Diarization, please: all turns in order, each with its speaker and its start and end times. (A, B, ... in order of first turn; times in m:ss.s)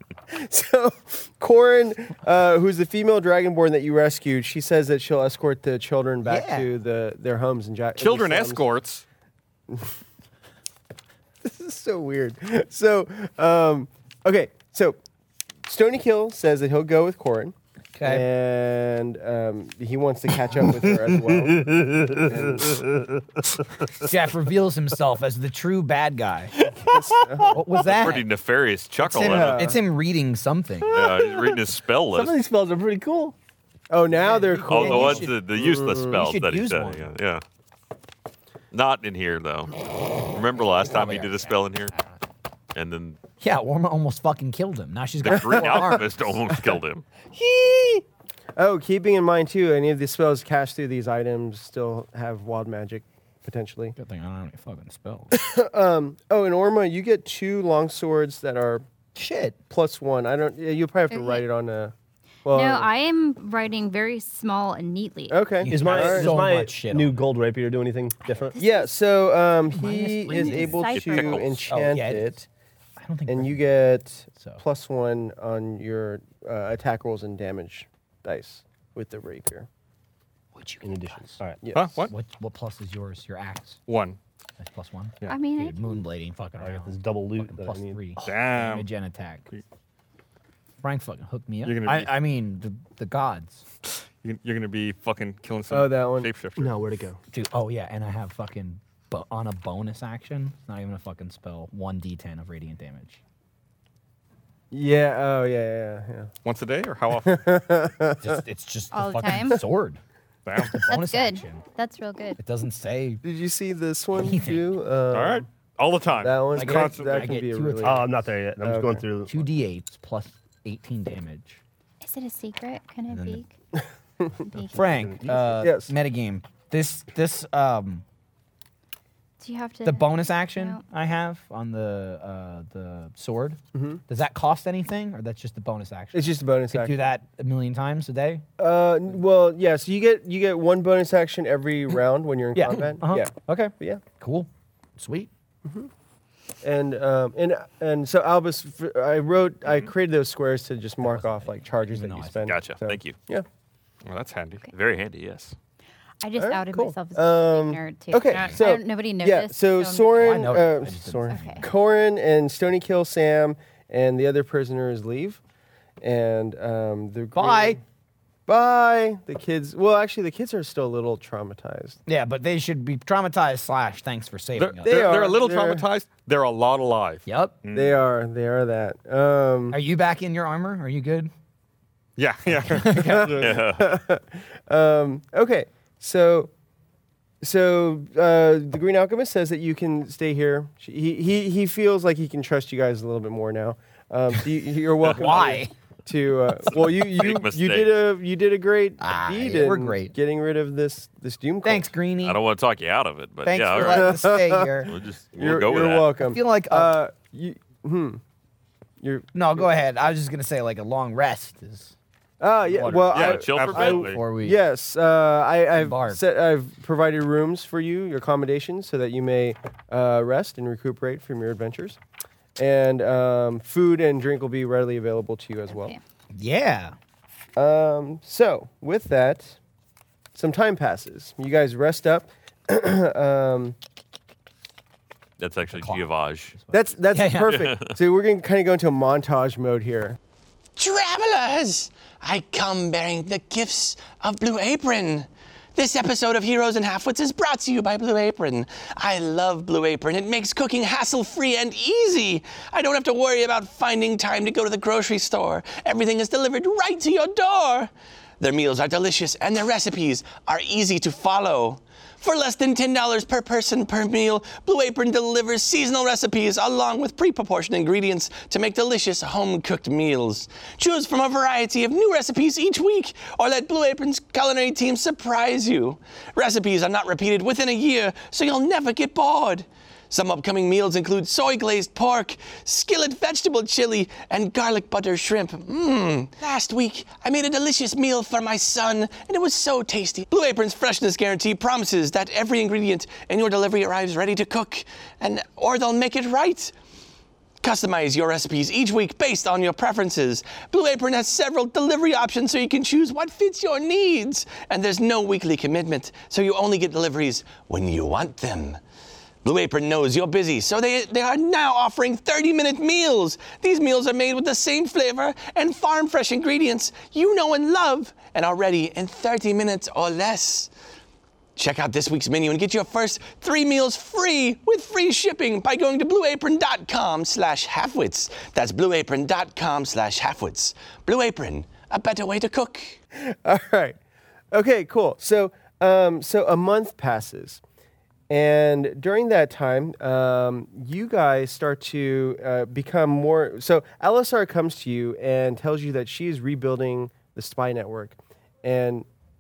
0:00.3-0:08.6 A
0:06.3-0:06.7 B
0:08.0-0:09.0 C
0:11.4-0:15.0 A
0:15.6-0:22.8 A
0:18.0-0:18.3 B
0:21.2-0:23.2 D
0:24.0-0:26.6 B
0:26.6-0:27.8 D
0:26.8-0:27.6 A
0:27.5-0:28.3 B
0:27.8-0:29.8 E
0:29.0-0:31.0 B
0:29.2-0:29.8 A
0:30.9-0:32.4 E
0:30.9-0:33.4 D
0:33.9-0:36.3 A
0:34.2-0:35.4 B
0:34.7-0:37.4 E
0:36.0-0:37.1 B
0:38.7-0:41.9 E
0:40.6-0:42.0 B
0:42.7-0:43.2 E
0:43.4-0:46.1 B
0:45.2-0:47.1 E
0:45.3-0:46.0 A
0:47.4-0:47.6 A
0:47.6-0:48.0 D
0:48.6-0:54.0 A
0:54.0-0:55.4 B
0:55.3-0:58.8 A
0:59.2-0:59.6 B
0:59.7-1:01.9 A
1:01.1-1:01.4 F
1:02.4-1:02.9 A
1:02.5-1:05.4 F
1:05.3-1:06.3 A
1:05.6-1:07.2 B
1:05.7-1:08.6 D
1:08.2-1:08.9 F
1:08.6-1:12.5 A
1:09.7-1:10.8 B
1:10.3-1:11.5 F
1:10.9-1:11.6 E
1:11.7-1:12.4 B
1:13.0-1:13.6 B
1:13.3-1:19.7 A
1:20.6-1:21.4 B
1:20.8-1:21.6 D
1:21.6-1:22.0 A
1:21.7-1:22.1 C
1:22.1-1:23.8 B
1:23.9-1:24.2 C
1:24.6-1:29.5 B
1:25.3-1:26.0 F
1:26.6-1:28.1 D
1:28.2-1:28.9 C
1:30.8-1:33.6 B
1:31.6-1:32.1 C
1:34.2-1:36.8 C
1:35.7-1:36.4 A
1:36.6-1:37.2 D
1:37.3-1:43.2 B
1:44.7-1:46.3 A
1:46.4-1:47.5 C
1:47.3-1:48.4 A
1:48.2-1:50.0 B
1:48.9-1:49.6 F
1:50.5-1:50.8 C
1:50.6-1:51.6 B
1:50.8-1:52.4 F
1:52.4-1:53.2 B
1:53.2-1:55.5 A
1:54.2-1:54.6 B
1:55.1-1:57.4 C
1:56.2-1:58.1 A
1:56.5-1:58.1 B
1:57.8-1:59.5 D
1:58.6-1:59.0 A
1:59.3-2:01.6 B
2:02.0-2:03.5 F
2:03.1-2:03.4 B
2:04.5-2:04.8 F
2:04.7-2:08.0 B
2:04.8-2:05.3 D
2:05.3-2:05.9 A
2:09.4-2:10.8 F
2:09.8-2:18.4 B
2:13.7-2:14.0 A
2:16.1-2:17.0 A
2:18.6-2:24.0 A
2:22.5-2:25.3 B
2:25.6-2:25.9 A
2:26.6-2:33.5 A
2:31.0-2:32.5 B
2:32.4-2:33.2 E
2:34.0-2:34.7 C
2:34.7-2:35.6 E
2:36.2-2:40.2 F
2:36.4-2:45.4 A
2:40.1-2:41.7 B
2:41.3-2:41.7 F
2:46.0-2:47.8 A
2:47.4-2:47.8 B
2:48.5-2:52.0 A
2:52.1-2:55.1 B
2:54.6-2:57.3 C
2:54.8-2:55.9 A
2:57.3-2:57.6 B
2:57.6-2:57.9 E
2:57.7-2:59.8 A
2:59.7-3:01.3 B
3:02.2-3:03.7 C
3:02.7-3:03.3 B
3:03.0-3:06.5 A
3:03.4-3:03.9 E
3:07.4-3:21.9 A
3:15.0-3:15.7 B
3:16.7-3:18.0 E
3:19.0-3:20.2 B
3:21.6-3:22.4 B
3:22.2-3:24.2 E
3:23.4-3:24.9 B
3:23.7-3:28.2 A
3:24.8-3:26.1 E
3:26.2-3:26.9 B
3:29.0-3:29.7 A
3:29.3-3:31.9 B
3:32.4-3:42.0 A
3:32.8-3:34.0 C
3:32.9-3:34.2 E
3:33.6-3:34.6 B
3:35.8-3:36.2 B
3:42.6-3:46.0 A
3:45.7-3:46.0 F
3:46.3-3:47.0 B
3:47.6-3:49.6 A
3:50.4-3:53.8 A
3:55.4-3:56.6 E
3:55.7-3:57.7 B
3:56.7-4:00.2 A
3:57.5-3:57.9 E
4:00.8-4:56.7 G
4:57.6-5:08.8 G
5:09.4-5:20.7 G
5:21.6-5:33.0 G
5:33.1-5:34.0 A
5:34.5-5:37.6 A
5:38.3-5:49.1 A